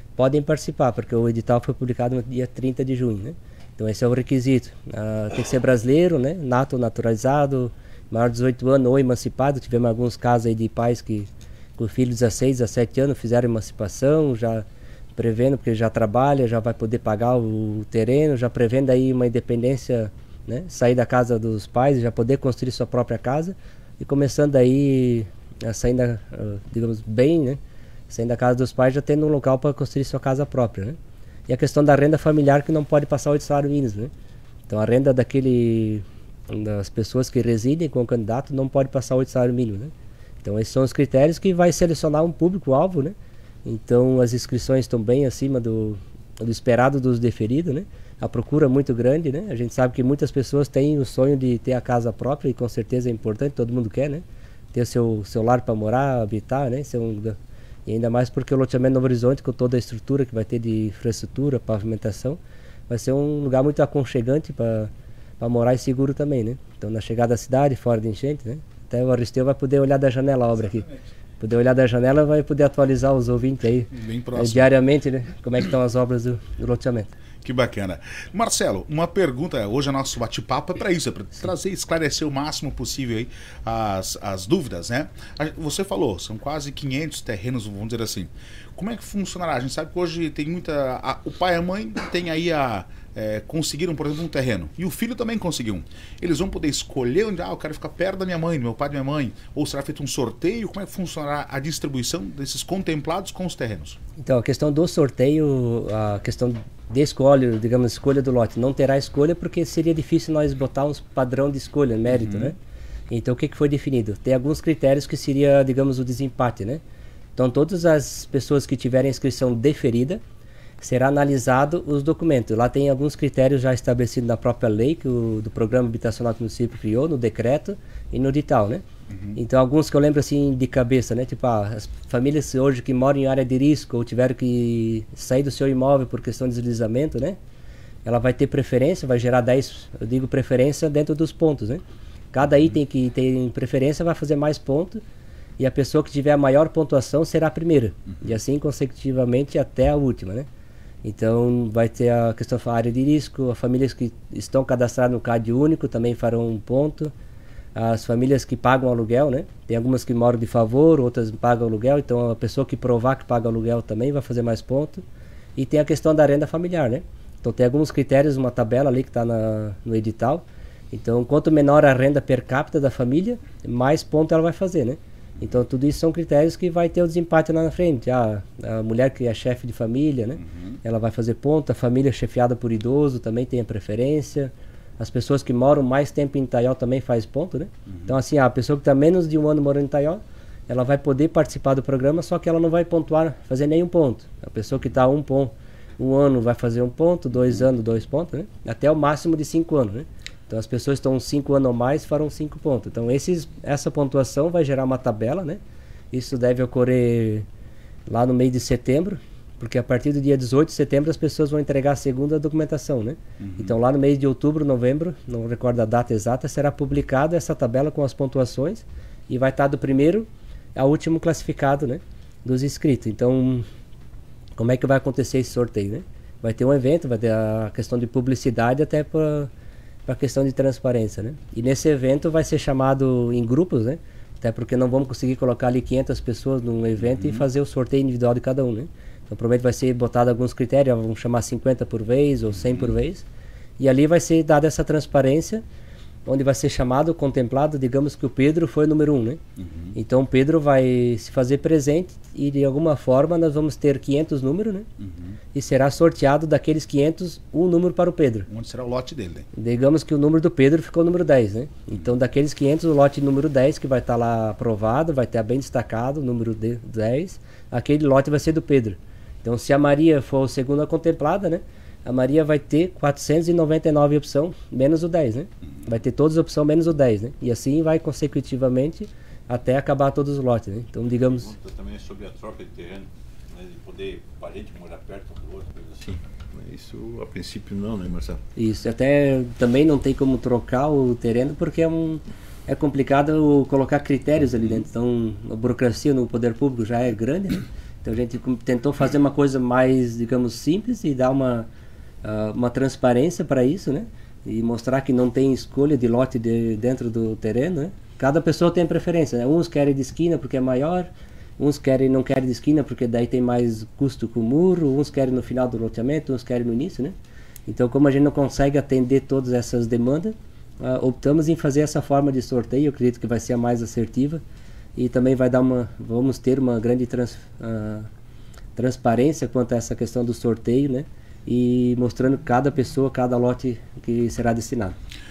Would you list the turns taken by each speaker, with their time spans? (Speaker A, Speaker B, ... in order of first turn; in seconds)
Speaker A: 0.2-14.6, 15.2-27.6, 28.1-31.0, 31.5-34.1, 34.7-39.9, 40.4-70.9, 71.4-77.1, 104.2-112.5, 113.1-116.8, 117.4-120.2, 120.8-128.8, 129.3-137.4, 138.1-141.8, 142.3-145.0, 145.6-150.4, 151.0-157.1, 157.7-165.0, 165.6-205.6, 206.1-207.4, 208.1-223.7, 224.6-229.5, 230.1-243.2, 243.8-245.6, 246.3-249.4, 249.9-254.9, 255.5-258.5, 259.6-281.5, 288.6-301.7, 302.2-317.1, 317.7-324.4, 324.9-328.1, 328.8-334.9
Speaker B: 73.9-74.7, 77.4-104.0, 112.1-112.5, 129.1-129.4, 213.4-213.7, 237.0-237.4, 242.6-242.9, 249.6-249.9, 255.0-255.4, 258.5-259.5
Speaker C: 281.2-288.4